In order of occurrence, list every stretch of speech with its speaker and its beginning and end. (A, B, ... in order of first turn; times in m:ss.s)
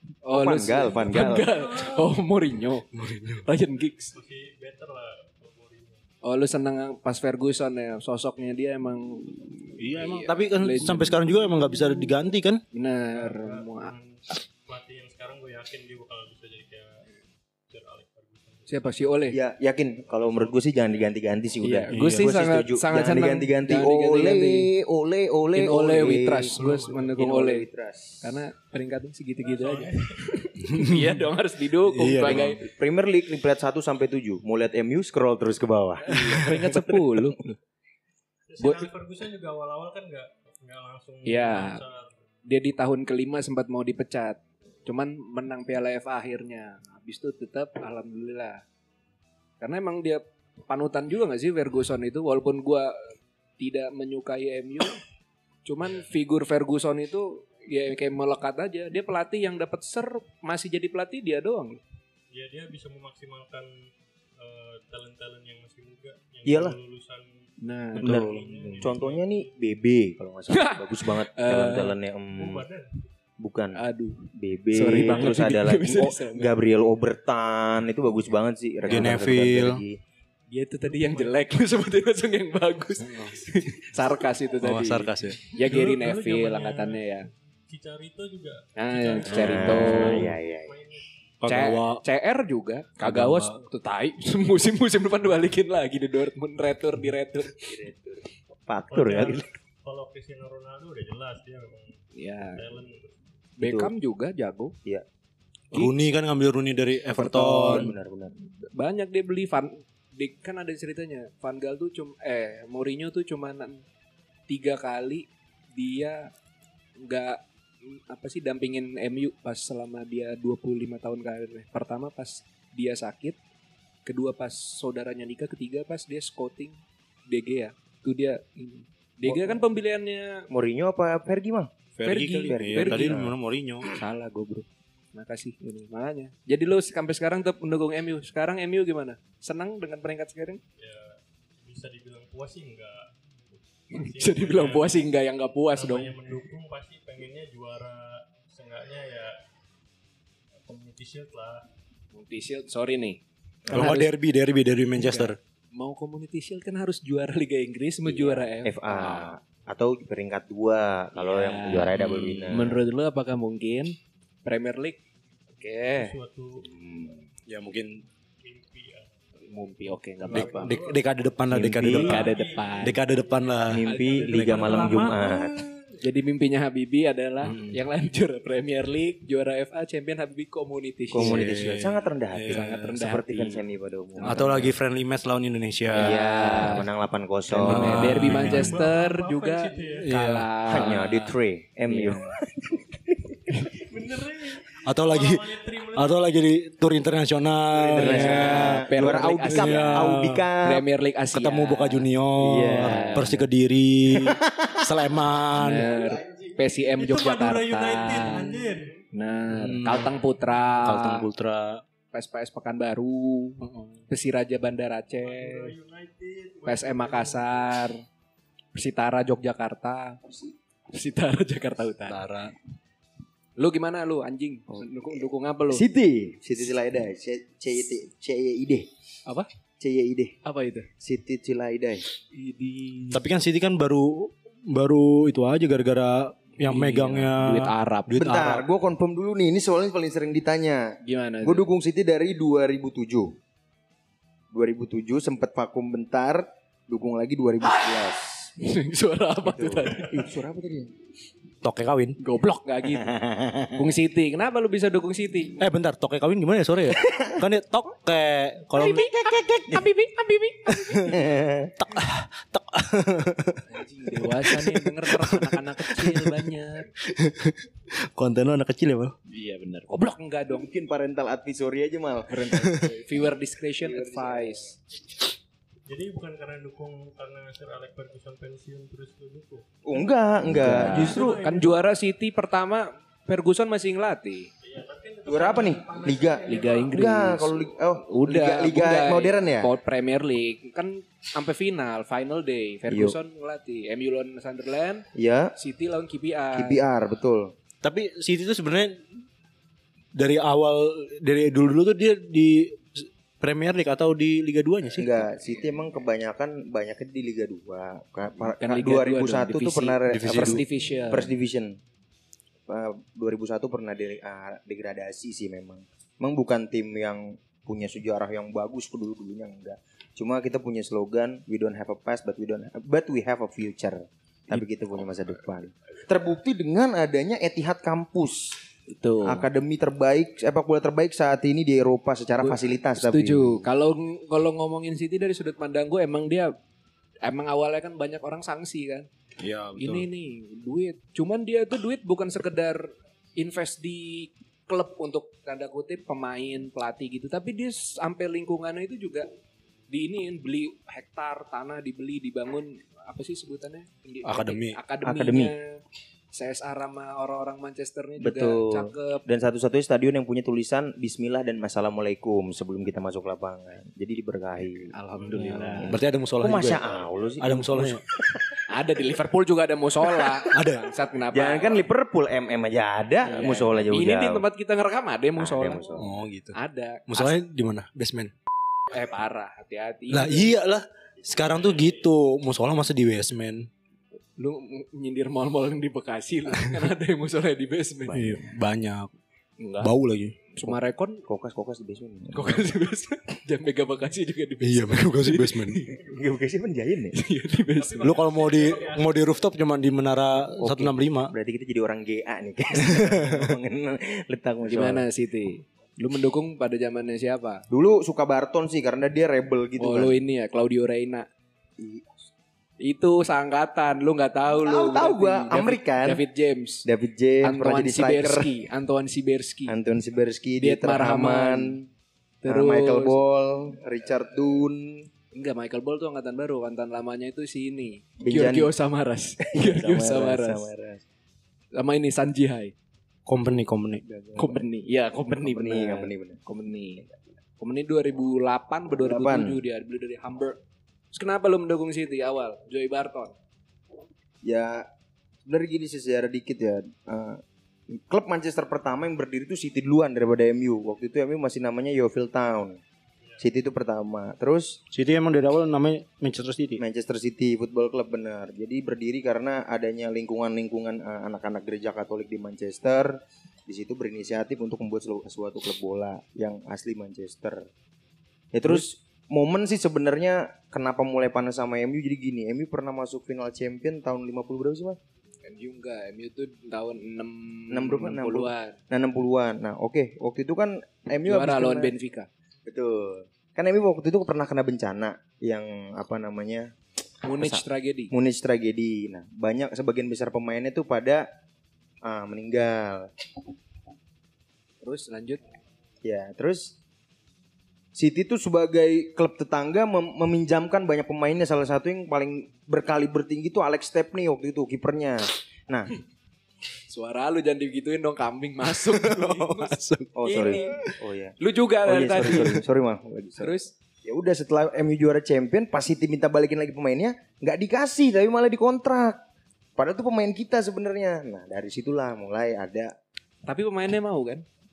0:00.2-0:02.9 A
0:00.3-0:01.5 B
0:01.1-0:02.1 C
0:02.9-0:03.4 D
0:03.4-0:04.1 A
0:04.1-0:06.0 C
0:06.2-0:11.2 A
0:09.8-0:12.6 D
0:12.7-0:13.9 A
0:13.1-0:17.0 C
0:17.7-0:19.2 C
0:18.7-0:19.4 A
0:19.3-0:26.6 B
0:21.6-0:24.7 A
0:21.9-0:22.3 D
0:25.5-0:27.7 A
0:26.5-0:27.2 C
0:27.2-0:28.4 B
0:28.2-0:32.6 A
0:29.4-0:30.7 C
0:30.6-0:31.2 D
0:31.8-0:32.6 D
0:32.2-0:36.2 B
0:36.0-0:37.5 A
0:36.1-0:37.0 D
0:38.5-0:42.1 C
0:38.6-0:38.9 A
0:41.2-0:41.8 A
0:42.4-0:48.6 A
0:49.6-0:53.0 A
0:53.6-0:55.0 A
0:55.6-1:01.8 A
1:02.3-1:03.7 C
1:04.4-1:07.3 C
1:06.4-1:06.8 B
1:07.6-1:08.2 A
1:07.9-1:09.6 C
1:08.0-1:12.6 B
1:08.0-1:08.3 D
1:10.5-1:12.0 A
1:12.3-1:13.0 C
1:13.4-1:13.8 B
1:13.7-1:16.6 A
1:14.3-1:20.0 B
1:15.0-1:15.3 C
1:18.9-1:19.8 D
1:20.5-1:27.3 A
1:20.8-1:21.4 C
1:24.6-1:25.4 D
1:25.5-1:27.1 C
1:27.7-1:31.1 C
1:28.8-1:30.3 A
1:29.3-1:30.7 B
1:31.4-1:32.0 D
1:31.4-1:37.7 A
1:33.0-1:33.6 D
1:37.6-1:39.5 B
1:38.9-1:42.0 C
1:42.2-1:42.6 A
1:42.5-1:43.2 C
1:43.6-1:44.7 A
1:43.6-1:43.9 B
1:45.7-1:47.9 D
1:47.2-1:48.4 B
1:47.4-1:47.9 A
1:48.6-1:53.8 A
1:54.5-1:56.3 A
1:57.0-2:03.4 A
2:04.0-2:10.5 A
2:09.2-2:09.6 B
2:10.5-2:11.7 B
2:12.0-2:13.9 D
2:12.0-2:13.3 A
2:12.4-2:13.3 B
2:13.9-2:20.6 A
2:20.8-2:24.9 C
2:23.9-2:26.2 A
2:25.7-2:29.4 C
2:30.6-2:31.7 C
2:32.1-2:34.1 A
2:33.7-2:35.4 D
2:35.0-2:39.3 A
2:38.0-2:42.8 B
2:41.1-2:45.0 A
2:45.5-2:46.1 A
2:45.9-2:46.7 C
2:46.6-2:47.3 B
2:47.5-2:48.0 D
2:48.4-2:49.1 C
2:49.4-2:50.8 A
2:50.2-2:51.0 C
2:50.3-2:55.4 D
2:51.5-2:52.3 B
2:51.8-2:53.0 A
2:51.8-2:53.0 C
2:53.7-2:55.6 B
2:53.8-2:55.7 C
2:53.9-2:55.0 A
2:56.0-3:01.5 A
2:57.4-2:57.8 D
3:01.1-3:04.7 B
3:01.2-3:02.9 D
3:02.5-3:03.6 A
3:04.1-3:04.6 A
3:04.2-3:06.2 D
3:05.9-3:06.9 A
3:05.9-3:08.5 B
3:07.5-3:08.9 D
3:07.5-3:11.3 A
3:08.2-3:10.1 C
3:10.0-3:10.9 D
3:10.7-3:13.2 B
3:11.9-3:12.3 A
3:13.6-3:16.2 C
3:14.8-3:20.4 D
3:17.7-3:20.8 B
3:18.0-3:22.1 A
3:21.3-3:25.9 D
3:22.4-3:23.4 B
3:22.8-3:23.4 A
3:24.1-3:24.9 B
3:25.6-3:31.2 A
3:25.7-3:26.4 B
3:27.0-3:29.0 C
3:29.5-3:30.2 D
3:30.8-3:31.8 D
3:32.1-3:35.7 A
3:33.6-3:34.0 D
3:35.2-3:37.8 C
3:36.6-3:38.0 A
3:38.7-3:40.2 A
3:40.9-3:42.2 A
3:42.0-3:42.5 D
3:43.6-3:45.8 A
3:44.7-3:45.2 B
3:45.7-3:48.9 B
3:49.8-3:50.4 B
3:50.4-3:50.9 A
3:51.0-3:52.0 B
3:52.3-3:53.2 A
3:53.1-3:58.6 D
3:56.6-3:58.5 A
3:58.1-4:03.4 B
4:01.0-4:01.6 A
4:04.5-4:08.5 B
4:08.6-4:10.2 A
4:09.4-4:10.9 B
4:11.6-4:12.2 D
4:12.2-4:13.2 A
4:12.9-4:13.9 B
4:13.7-4:15.6 A
4:15.6-4:19.1 D
4:16.9-4:17.4 B
4:18.7-4:21.2 A
4:20.7-4:21.2 D
4:21.0-4:21.7 B
4:21.8-4:29.1 D
4:23.7-4:26.9 A
4:29.3-4:30.7 A
4:30.5-4:32.4 B
4:32.3-4:34.7 A
4:32.5-4:32.8 D
4:33.8-4:34.7 B
4:35.9-4:40.1 C
4:39.8-4:41.4 B
4:40.5-4:41.1 D
4:40.6-4:44.5 A
4:40.8-4:41.8 C
4:44.6-4:47.0 C
4:45.3-4:49.7 B
4:46.5-4:56.8 A
4:52.9-4:53.2 B
4:55.1-4:55.5 B
4:56.5-4:57.5 B
4:57.8-4:59.0 D
5:00.1-5:05.2 D
5:05.0-5:11.8 B
5:08.5-5:11.3 A
5:10.1-5:10.6 D
5:12.7-5:28.6 B
5:28.9-5:29.5 A
5:29.2-5:33.7 B
5:32.4-5:36.5 A
5:37.2-5:39.1 A
5:39.4-5:40.0 D
5:39.8-5:49.3 A
5:49.9-5:55.8 A
5:54.2-5:54.8 D
5:55.0-5:55.5 B
5:56.3-5:59.2 A
5:58.2-6:08.6 B
6:04.9-6:06.0 A
6:05.4-6:06.8 D
6:07.4-6:08.0 D
6:08.7-6:11.8 A
6:10.5-6:10.9 D
6:11.3-6:14.4 B
6:13.2-6:15.8 A
6:15.4-6:16.1 B
6:15.9-6:16.6 D
6:16.5-6:17.4 A
6:17.1-6:18.3 D
6:18.9-6:20.6 A
6:20.1-6:23.7 D
6:24.4-6:28.4 A
6:28.0-6:28.5 B
6:28.1-6:29.1 D
6:29.6-6:29.9 A
6:29.8-6:30.4 D
6:30.5-6:31.2 A
6:31.3-6:32.6 B
6:32.3-6:36.0 A
6:34.6-6:35.8 D
6:35.9-6:37.1 B
6:37.1-6:38.1 A
6:37.7-6:39.4 C
6:38.0-6:41.3 D
6:40.4-6:45.0 B
6:42.8-6:43.5 D
6:44.7-6:47.6 A
6:47.7-6:50.2 B
6:49.8-6:51.3 A
6:51.8-6:52.2 B
6:52.8-6:56.9 A
6:54.5-6:56.2 B
6:56.8-6:58.5 B
6:57.4-6:59.7 A
6:59.7-7:01.9 B
7:00.6-7:01.8 A
7:02.4-7:03.2 A
7:02.4-7:05.1 B
7:05.3-7:10.7 A
7:08.2-7:08.7 B
7:09.5-7:11.0 B
7:11.7-7:12.7 A
7:13.2-7:14.0 D
7:14.0-7:14.7 B
7:14.4-7:17.0 A
7:15.3-7:16.4 B
7:17.6-7:20.6 A
7:18.9-7:19.6 B
7:21.1-7:23.3 A
7:24.4-7:24.9 B
7:25.5-7:27.4 B
7:27.9-7:32.8 B
7:33.4-7:34.8 B
7:34.9-7:36.8 D
7:36.8-7:47.7 B
7:48.5-7:55.0 B
7:55.4-7:58.8 A
7:57.7-8:01.9 B
8:01.2-8:02.3 A
8:02.6-8:06.7 B
8:07.2-8:08.1 A
8:07.4-8:11.2 B
8:12.0-8:13.1 B
8:14.8-8:15.4 A
8:16.0-8:16.7 B
8:17.9-8:25.9 B
8:26.9-8:30.8 A
8:28.7-8:30.9 D
8:30.2-8:33.5 B
8:31.4-8:32.6 A
8:33.4-8:33.7 A
8:34.0-8:39.2 B
8:39.8-8:42.9 B
8:43.4-8:44.4 A